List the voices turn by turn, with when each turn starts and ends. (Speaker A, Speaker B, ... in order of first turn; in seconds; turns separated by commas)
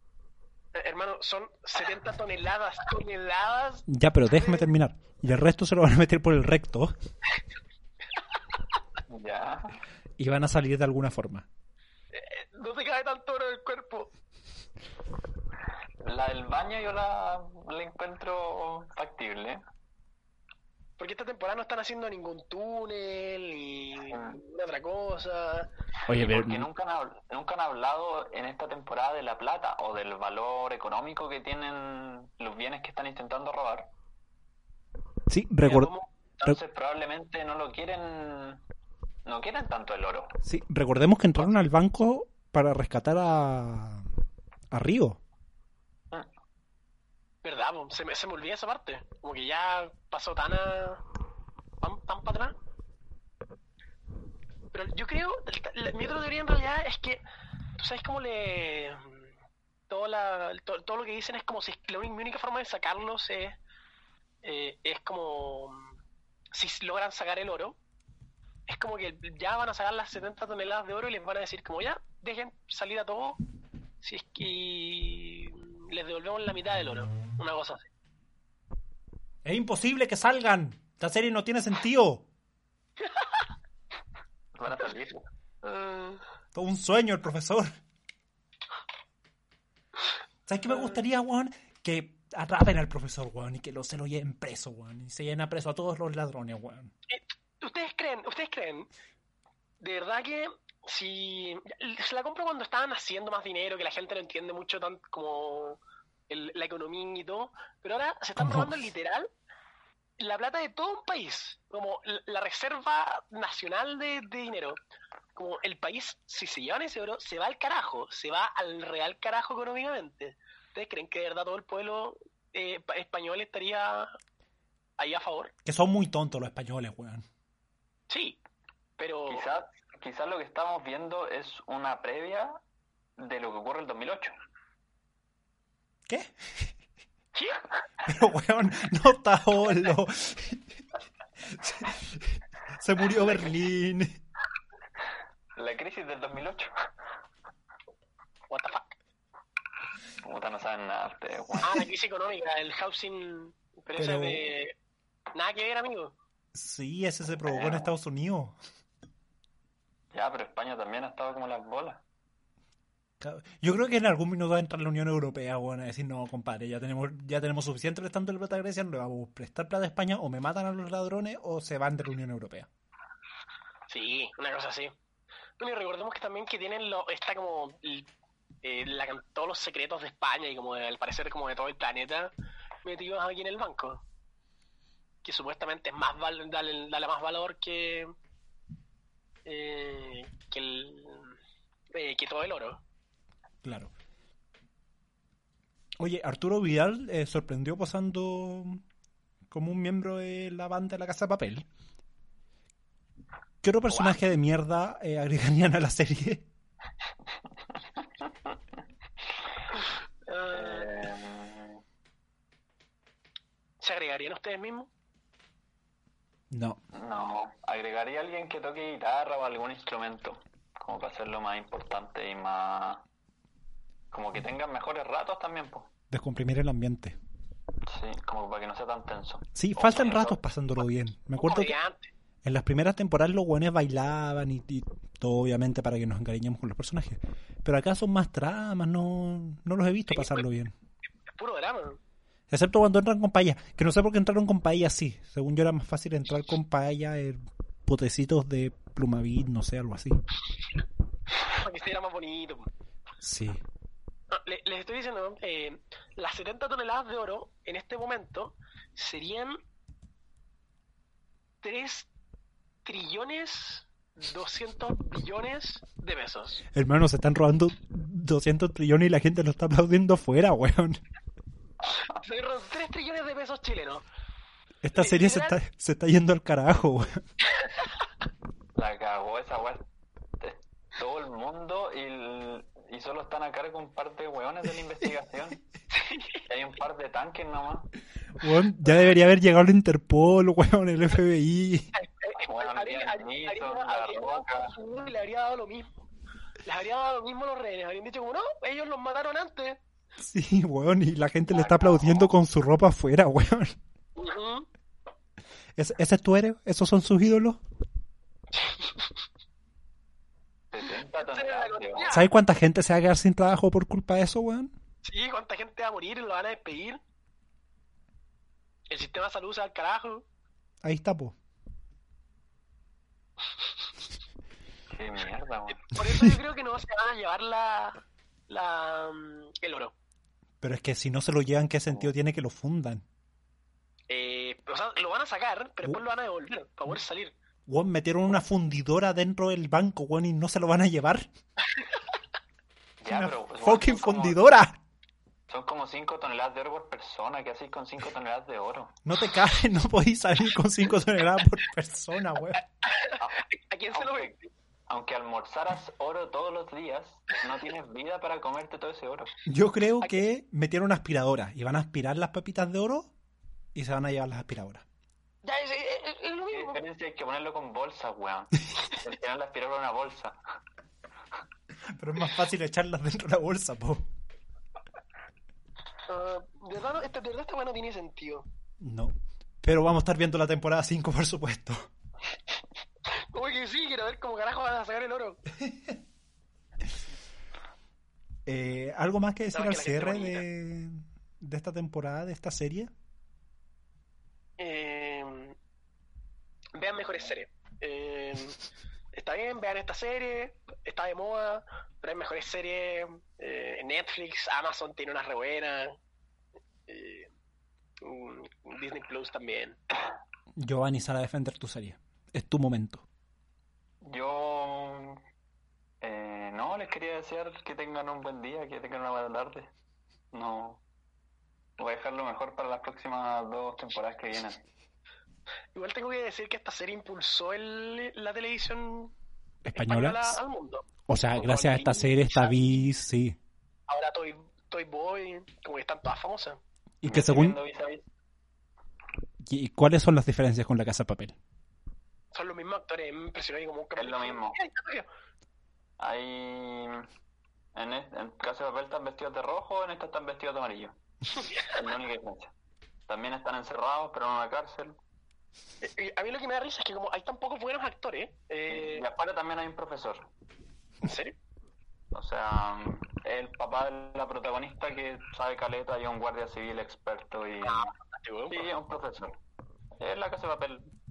Speaker A: 0.8-4.7, Speaker B: 3.9-7.0, Speaker C: 9.1-9.8, Speaker B: 10.2-11.5, Speaker A: 12.1-14.1, Speaker C: 16.0-19.6, Speaker A: 21.0-25.7, Speaker C: 24.1-24.4, Speaker B: 26.1-26.7, Speaker C: 26.1-33.9, Speaker B: 35.3-35.9, Speaker A: 35.6-36.1, Speaker C: 36.4-38.6, Speaker C: 39.2-40.4, Speaker B: 40.4-44.1, Speaker B: 44.7-45.2, Speaker A: 47.4-51.0, Speaker A: 51.8-52.5, Speaker A: 54.7-57.2, Speaker A: 57.8-59.3, Speaker A: 59.9-63.6, Speaker A: 64.4-65.9, Speaker A: 66.5-67.8, Speaker A: 68.7-73.4, Speaker A: 74.0-77.9, Speaker B: 79.5-82.3, Speaker C: 84.5-85.3, Speaker A: 85.6-86.2, Speaker B: 86.5-87.8, Speaker B: 90.5-96.9, Speaker A: 97.1-98.9, Speaker A: 99.8-109.3, Speaker B: 108.4-108.7, Speaker A: 110.2-114.8, Speaker A: 115.4-124.1, Speaker A: 125.0-125.5, Speaker B: 125.7-127.2, Speaker A: 128.1-128.4, Speaker A: 129.0-129.4, Speaker C: 129.3-132.6, Speaker C: 133.2-134.3, Speaker B: 136.1-136.7, Speaker B: 138.1-140.7, Speaker B: 141.4-144.1, Speaker C: 145.6-146.7, Speaker A: 148.5-148.9, Speaker C: 150.2-151.9, Speaker A: 151.6-154.7, Speaker B: 154.0-154.5, Speaker A: 155.3-156.2, Speaker B: 156.5-158.6, Speaker C: 157.5-157.9, Speaker C: 160.1-162.0, Speaker B: 163.2-172.7, Speaker A: 173.9-174.9, Speaker A: 175.6-178.1, Speaker A: 178.6-182.3, Speaker A: 182.8-184.0, Speaker A: 185.2-188.1, Speaker A: 189.5-191.3, Speaker A: 191.9-192.8, Speaker B: 193.6-193.9, Speaker B: 196.0-198.8, Speaker B: 199.5-201.7, Speaker B: 203.6-206.5, Speaker A: 210.3-211.1, Speaker C: 210.5-211.8, Speaker A: 213.8-214.9, Speaker B: 216.5-216.8, Speaker C: 216.9-223.0, Speaker C: 224.1-225.9, Speaker B: 226.1-227.2, Speaker C: 227.9-230.4, Speaker B: 229.5-231.8, Speaker A: 231.4-232.1, Speaker B: 232.4-240.7, Speaker A: 240.1-240.4, Speaker A: 241.3-242.0, Speaker B: 242.5-250.2, Speaker A: 251.4-252.7, Speaker B: 253.2-253.6, Speaker A: 254.3-259.6, Speaker A: 261.6-262.1, Speaker A: 262.9-266.6, Speaker B: 266.7-271.0, Speaker A: 272.1-274.0, Speaker B: 274.8-277.2, Speaker A: 274.9-275.6, Speaker C: 278.8-279.9, Speaker C: 280.4-285.6, Speaker A: 286.0-286.4, Speaker C: 286.5-287.9, Speaker B: 288.4-291.9, Speaker A: 291.9-295.9, Speaker C: 292.4-294.7, Speaker A: 296.6-299.8, Speaker B: 300.2-303.8, Speaker A: 304.1-304.7, Speaker B: 305.8-307.6, Speaker A: 308.5-309.1, Speaker C: 310.7-312.1, Speaker A: 311.3-312.2, Speaker B: 312.1-314.7, Speaker A: 315.0-317.0, Speaker A: 318.9-320.2, Speaker B: 320.8-321.4, Speaker C: 324.9-325.9, Speaker A: 325.9-329.9, Speaker B: 330.6-333.0, Speaker A: 334.1-337.4, Speaker B: 337.7-341.3, Speaker C: 343.0-344.4, Speaker B: 343.1-344.8, Speaker C: 345.5-349.0, Speaker B: 349.0-352.6, Speaker A: 352.9-354.5, Speaker C: 353.9-354.3, Speaker C: 354.9-359.3, Speaker B: 359.5-363.1, Speaker B: 363.7-364.8, Speaker A: 365.4-366.8, Speaker C: 366.5-370.4, Speaker B: 371.9-374.1, Speaker A: 376.1-378.5, Speaker B: 378.8-381.9, Speaker A: 383.3-385.4, Speaker B: 385.6-385.9, Speaker B: 388.5-392.9, Speaker A: 389.5-390.5, Speaker A: 394.6-395.6, Speaker A: 396.8-398.6, Speaker A: 399.1-406.0, Speaker A: 406.9-407.3, Speaker A: 408.0-409.8, Speaker B: 410.6-413.0, Speaker C: 414.0-415.2, Speaker C: 416.0-419.7, Speaker C: 420.3-420.8, Speaker C: 421.8-424.6, Speaker A: 425.8-429.1, Speaker B: 429.6-430.4, Speaker A: 429.8-432.6, Speaker B: 431.1-433.4, Speaker A: 433.9-436.6, Speaker B: 437.0-437.6, Speaker C: 437.0-438.0, Speaker B: 439.4-441.4, Speaker A: 442.3-445.1, Speaker C: 444.0-444.6, Speaker C: 446.0-447.1, Speaker C: 447.8-451.0, Speaker A: 451.4-451.8, Speaker C: 451.6-452.5, Speaker C: 453.1-455.0, Speaker A: 455.8-459.0, Speaker C: 458.7-460.3, Speaker A: 461.0-461.4, Speaker C: 462.1-467.9, Speaker A: 467.6-468.7, Speaker C: 468.5-469.4, Speaker C: 470.0-470.9